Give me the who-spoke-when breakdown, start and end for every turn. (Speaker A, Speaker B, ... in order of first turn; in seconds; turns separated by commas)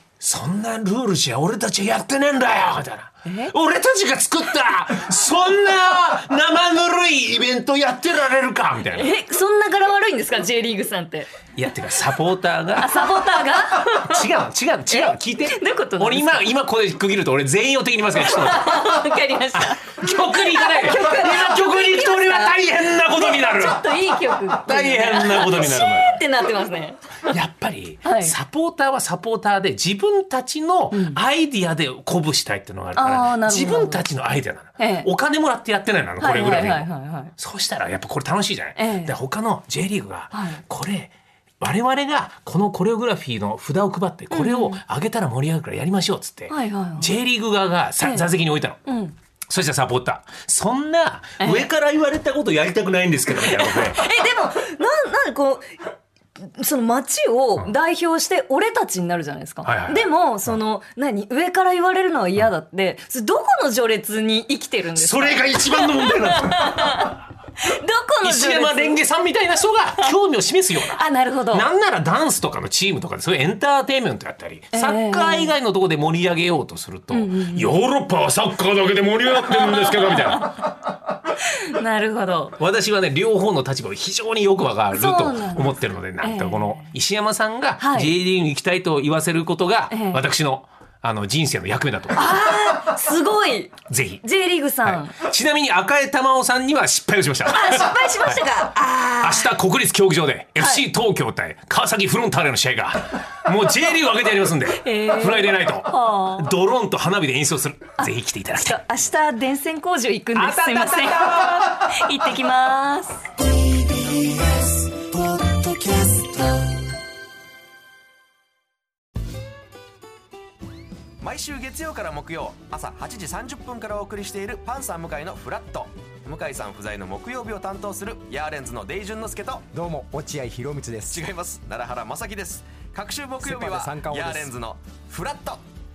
Speaker A: 0.2-9.1, Speaker B: 3.2-3.5, Speaker B: 8.9-11.3, Speaker A: 11.6-26.2, Speaker B: 12.8-14.3, Speaker B: 14.9-16.5, Speaker B: 18.1-27.0, Speaker A: 27.2-48.8, Speaker B: 28.0-28.4, Speaker B: 30.9-31.2, Speaker B: 33.0-34.0, Speaker B: 34.8-35.1, Speaker B: 36.2-37.3, Speaker B: 38.8-39.2, Speaker B: 40.3-40.6, Speaker B: 44.3-44.8, Speaker B: 46.5-47.1, Speaker B: 48.0-48.3, Speaker B: 48.9-49.1, Speaker A: 49.5-54.1, Speaker B: 51.4-51.7, Speaker B: 53.4-55.8, Speaker B: 56.4-69.0, Speaker A: 59.6-60.6, Speaker A: 65.0-67.1, Speaker A: 68.2-80.7, Speaker B: 70.8-71.7, Speaker B: 74.7-75.5, Speaker B: 77.1-77.7, Speaker B: 79.3-80.8, Speaker B: 81.3-82.6, Speaker A: 82.6-92.6, Speaker B: 84.9-86.9, Speaker B: 87.8-88.1, Speaker B: 89.9-90.2, Speaker B: 92.1-95.1, Speaker A: 93.9-94.3, Speaker A: 94.8-98.5, Speaker B: 97.5-99.5, Speaker A: 99.2-108.8, Speaker B: 100.6-100.8, Speaker B: 104.7-106.5, Speaker B: 108.0-113.3, Speaker A: 110.3-112.0, Speaker C: 121.2-129.8, Speaker D: 129.7-131.2, Speaker C: 131.1-135.6, Speaker D: 133.4-134.5